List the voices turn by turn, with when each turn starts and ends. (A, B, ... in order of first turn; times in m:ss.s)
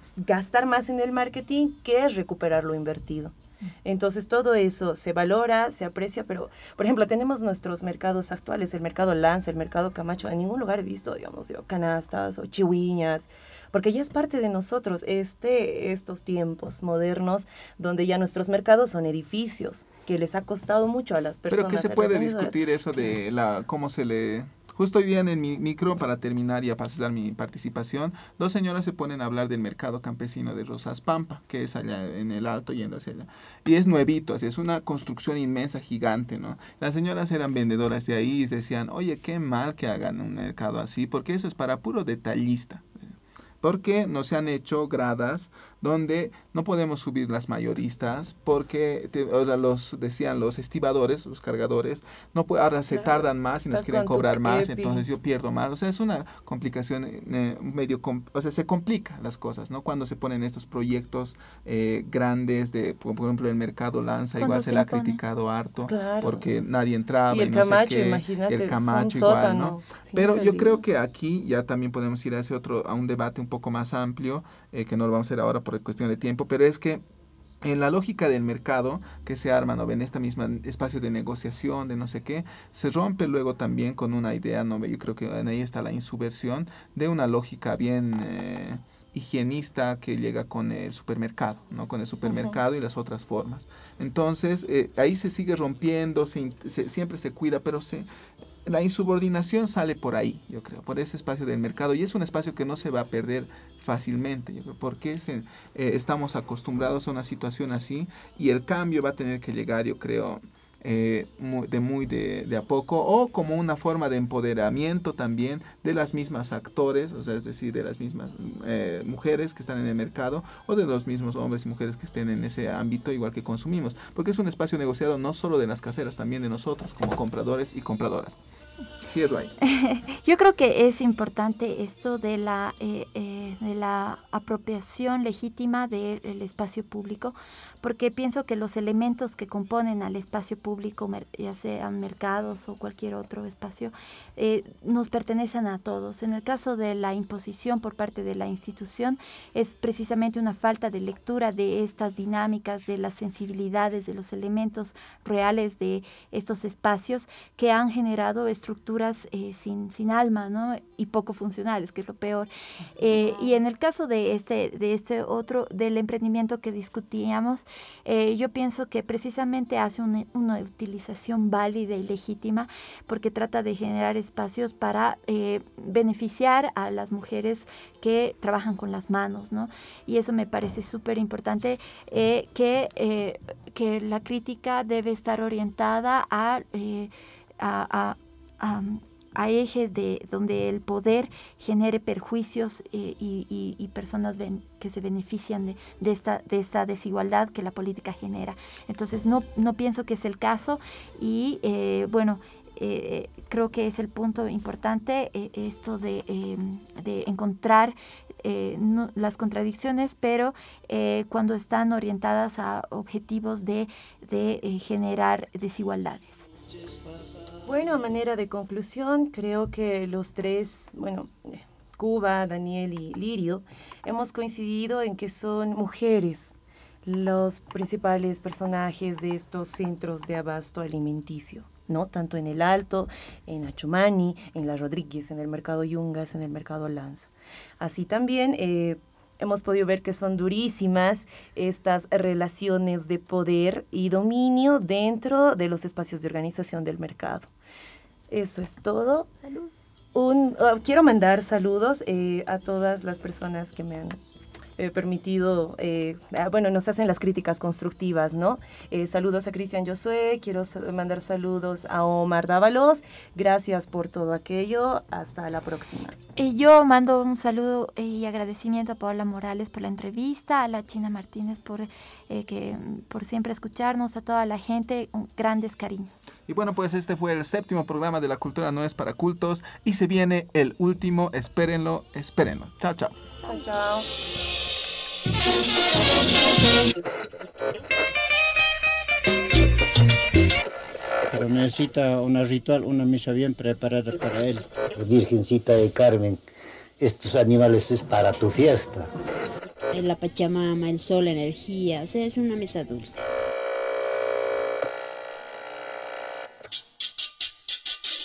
0:00.2-0:22.6 A
0:21.5-1:17.0 B
0:52.9-0:55.0 A
1:04.4-1:05.2 C
1:05.8-1:06.5 A
1:07.3-1:10.8 A
1:17.6-1:38.1 B
1:32.2-1:32.6 A
1:38.6-2:08.4 B
2:09.0-2:09.5 B
2:09.6-3:36.4 C
3:37.6-3:46.5 A
3:47.0-4:07.5 A
4:08.3-4:14.2 A
4:14.8-4:26.2 A
4:26.4-4:36.1 C
4:36.5-4:43.2 B
4:43.4-4:44.1 A
4:51.3-4:54.7 D
4:54.9-4:56.4 E
4:57.0-4:59.1 E
4:59.9-5:03.2 F